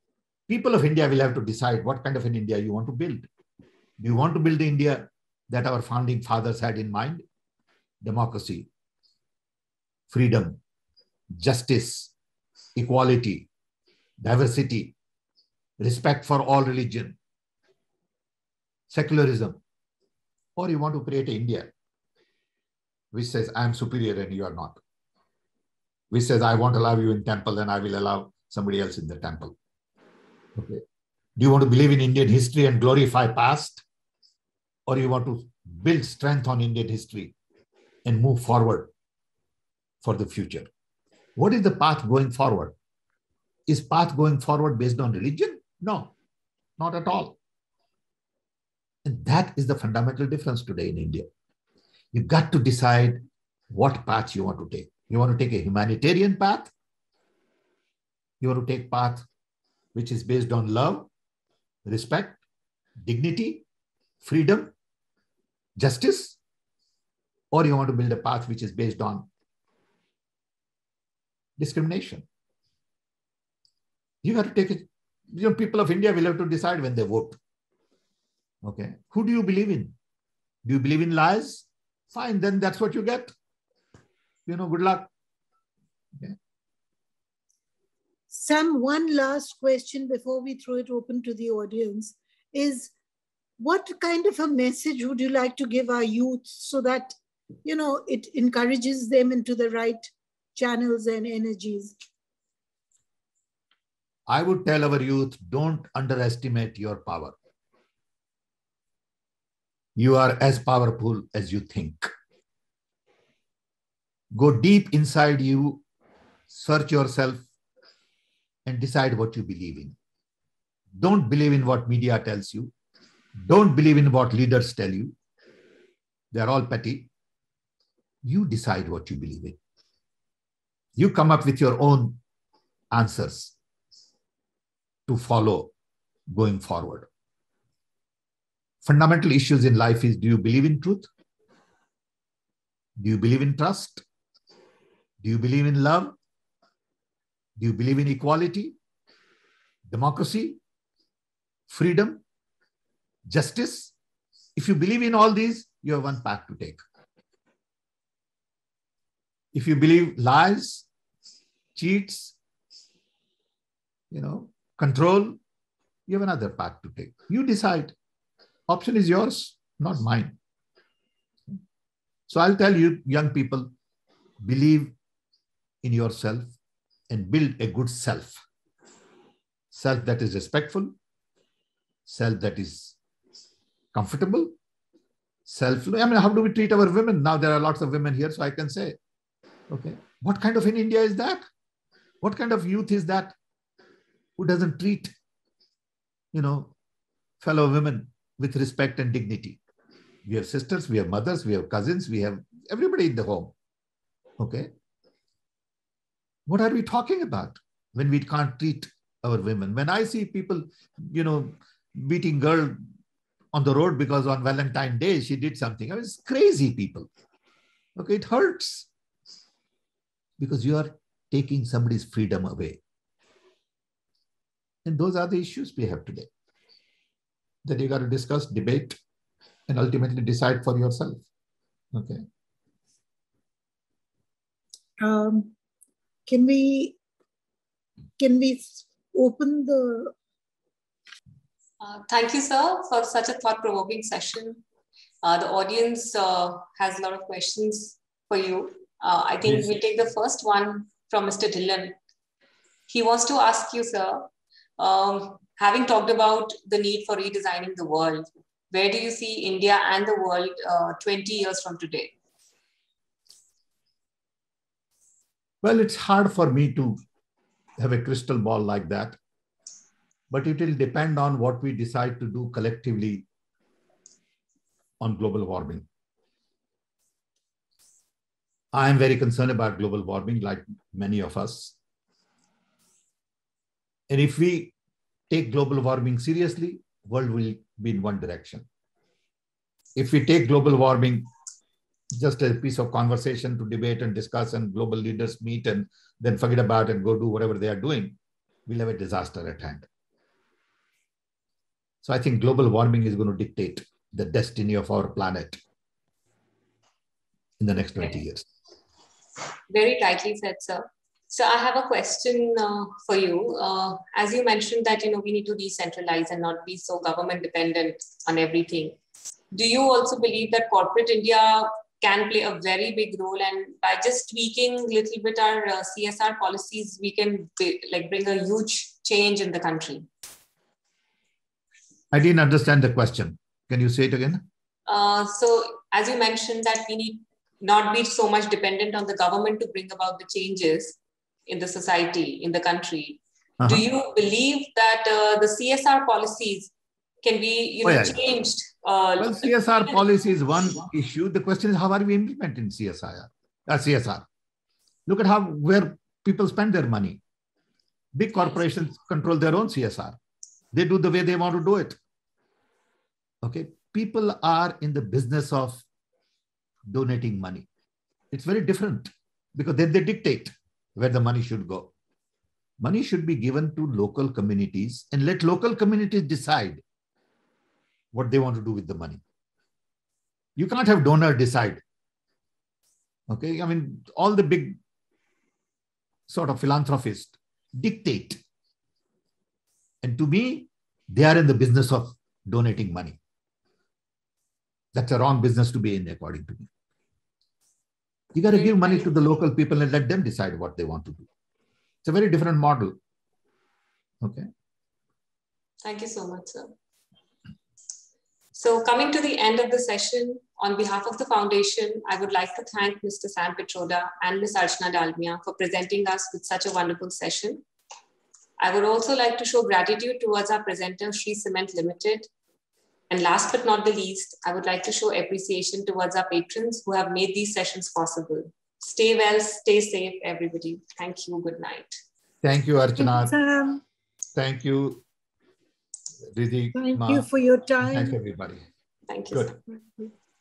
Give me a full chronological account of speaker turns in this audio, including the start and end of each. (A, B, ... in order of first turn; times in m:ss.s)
0:00.5-0:03.3 A
0:04.0-0:07.2 A
0:08.0-0:08.7 A
0:10.1-0:10.6 A
0:11.4-0:12.1 A
0:12.8-0:13.5 A
0:14.2-0:15.0 A
0:15.8-0:17.2 A
0:18.9-0:19.6 A
0:20.6-0:21.7 A
0:23.1-0:24.8 A
0:26.1-0:29.6 A
0:30.6-0:30.8 A
0:31.4-0:33.8 A
0:34.9-0:37.4 A
0:38.0-0:38.9 A
0:40.0-0:40.7 A
0:41.4-0:42.8 A
0:43.7-0:46.1 A
0:46.8-0:47.4 A
0:49.0-0:51.3 A
0:52.1-0:56.7 A
0:58.4-0:59.3 A
0:59.9-1:01.1 A
1:01.9-1:02.4 A
1:03.0-1:03.6 A
1:04.2-1:04.7 A
1:05.8-1:06.4 A
1:07.5-1:09.3 A
1:11.6-1:12.2 A
1:14.2-1:17.4 A
1:18.6-1:19.9 A
1:20.6-1:23.3 A
1:24.5-1:25.1 A
1:28.3-1:32.9 B
1:33.6-1:42.0 B
1:44.3-1:47.4 A
1:50.0-1:52.1 A
1:54.3-1:55.8 A
1:56.5-1:57.5 A
1:58.7-2:00.0 A
2:01.0-2:02.7 A
2:03.4-2:05.2 A
2:06.3-2:07.1 A
2:08.2-2:09.6 A
2:11.0-2:12.2 A
2:12.9-2:13.6 A
2:15.1-2:15.7 A
2:16.3-2:17.1 A
2:18.8-2:21.1 A
2:23.0-2:24.0 A
2:25.2-2:26.2 A
2:27.6-2:28.8 A
2:29.9-2:30.6 A
2:31.7-2:32.2 A
2:33.3-2:33.9 A
2:34.6-2:36.8 A
2:39.5-2:40.9 A
2:41.8-2:42.4 A
2:44.1-2:45.4 A
2:46.1-2:48.0 A
2:48.7-2:50.4 A
2:52.3-2:53.7 A
2:54.4-2:54.9 A
2:55.8-2:56.5 A
2:57.1-2:58.4 A
2:59.7-3:00.9 A
3:02.1-3:03.0 A
3:03.9-3:04.5 A
3:05.5-3:09.0 A
3:09.7-3:11.4 A
3:12.2-3:13.4 A
3:14.4-3:15.1 A
3:16.3-3:16.7 A
3:17.4-3:19.6 A
3:20.2-3:23.5 A
3:24.4-3:24.7 A
3:26.5-3:32.8 A
3:33.5-3:37.1 A
3:38.0-3:38.9 A
3:40.4-3:42.8 A
3:44.8-3:46.3 A
3:47.6-3:49.0 A
3:49.7-3:51.2 A
3:51.9-3:52.2 A
3:55.0-3:55.5 B
3:56.3-3:57.0 B
3:58.2-4:00.1 B
4:01.8-4:04.6 C
4:05.2-4:12.0 C
4:12.9-4:14.3 C
4:14.8-4:22.1 C
4:25.6-4:27.0 A
4:27.8-4:29.2 A
4:30.3-4:33.3 A
4:35.0-4:35.9 A
4:38.7-4:41.8 A
4:44.1-4:44.7 A
4:45.3-4:48.7 A
4:50.0-4:51.3 A
4:52.2-4:59.9 A
5:02.0-5:05.6 A
5:07.6-5:08.4 A
5:09.7-5:19.0 C
5:19.5-5:30.1 C
5:32.1-5:34.4 A
5:34.9-5:46.7 C
5:47.2-5:50.0 C
5:47.8-5:48.2 A
5:49.2-5:54.3 A
5:55.1-5:57.2 A
5:58.2-6:00.2 A
6:00.7-6:02.0 A
6:03.4-6:05.8 A
6:06.9-6:07.7 A
6:08.3-6:11.9 A
6:12.8-6:16.8 A
6:18.1-6:19.2 A
6:20.6-6:21.8 A
6:23.3-6:24.8 A
6:26.3-6:28.4 A
6:30.0-6:33.2 A
6:34.9-6:36.7 A
6:38.3-6:41.3 A
6:38.5-6:39.1 C
6:42.0-6:43.0 A
6:45.8-6:46.7 C
6:48.6-6:57.6 C
6:58.6-7:02.3 C
7:03.1-7:12.0 C
7:12.4-7:13.3 A
7:13.0-7:13.8 B
7:14.4-7:15.0 A
7:16.3-7:17.3 A
7:16.7-7:18.2 B
7:17.8-7:18.6 A
7:19.1-7:19.6 C
7:19.7-7:20.1 B